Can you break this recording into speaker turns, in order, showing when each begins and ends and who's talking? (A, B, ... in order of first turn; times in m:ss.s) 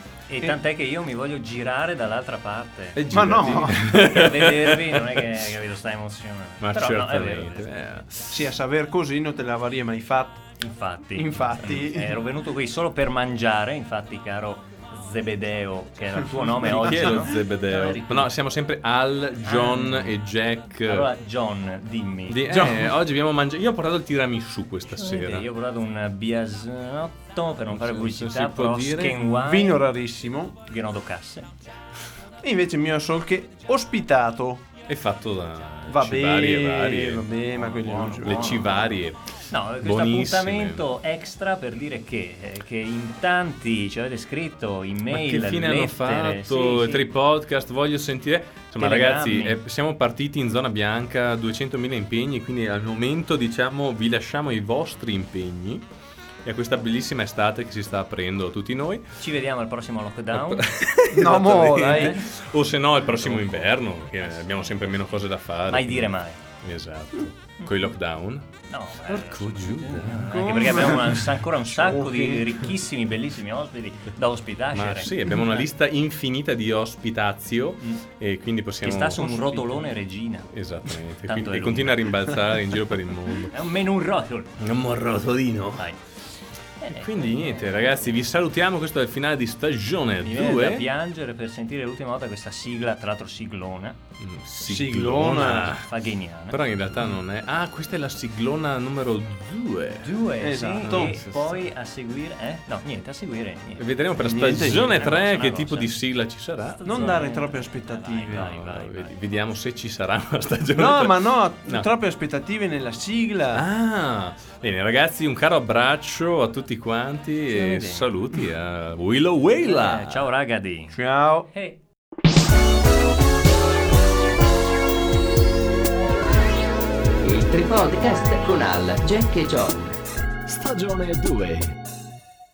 0:00.3-0:07.7 A
0:03.0-0:05.5 B
0:03.0-0:03.8 C
0:06.6-0:08.5 B
0:08.3-0:10.4 C
0:10.6-0:18.3 A
0:11.1-0:12.2 C
0:16.3-0:17.3 C
0:16.6-0:21.1 B
0:19.4-0:20.2 A
0:20.9-0:22.5 A
0:22.3-0:25.5 B
0:22.5-0:22.9 C
0:24.9-0:29.8 A
0:27.7-0:29.2 B
0:29.3-0:30.6 C
0:30.7-0:31.5 A
0:32.4-0:34.6 C
0:34.9-0:37.3 B
0:35.9-0:38.8 C
0:37.5-0:47.1 A
0:38.2-0:40.8 B
0:45.1-0:55.8 B
0:48.8-0:49.6 A
0:56.4-0:59.1 B
0:59.2-1:00.7 A
1:00.3-1:08.5 B
1:01.1-1:02.2 C
1:01.7-1:02.3 A
1:03.2-1:03.5 C
1:04.2-1:04.9 A
1:05.7-1:06.4 A
1:08.7-1:15.7 A
1:09.1-1:10.6 B
1:10.2-1:12.6 C
1:14.7-1:19.6 B
1:18.8-1:20.5 A
1:19.3-1:19.8 C
1:20.5-1:23.5 B
1:21.3-1:22.1 A
1:23.4-1:24.5 A
1:24.6-1:25.9 B
1:26.8-1:28.2 A
1:26.9-1:30.9 B
1:30.2-1:34.0 A
1:34.2-1:35.8 B
1:34.6-1:35.8 C
1:35.6-1:36.6 A
1:36.5-1:40.2 B
1:40.0-1:43.8 A
1:40.4-1:41.2 C
1:40.8-1:41.7 B
1:43.8-1:47.2 B
1:44.2-1:45.0 C
1:44.7-1:46.0 A
1:46.6-1:49.2 A
1:46.8-1:48.5 C
1:48.3-1:51.9 B
1:50.7-1:53.6 C
1:53.5-2:00.3 B
1:57.5-1:58.1 A
1:59.6-2:01.0 A
2:00.9-2:01.5 C
2:01.5-2:01.8 A
2:07.2-2:10.0 D
2:10.5-2:11.7 B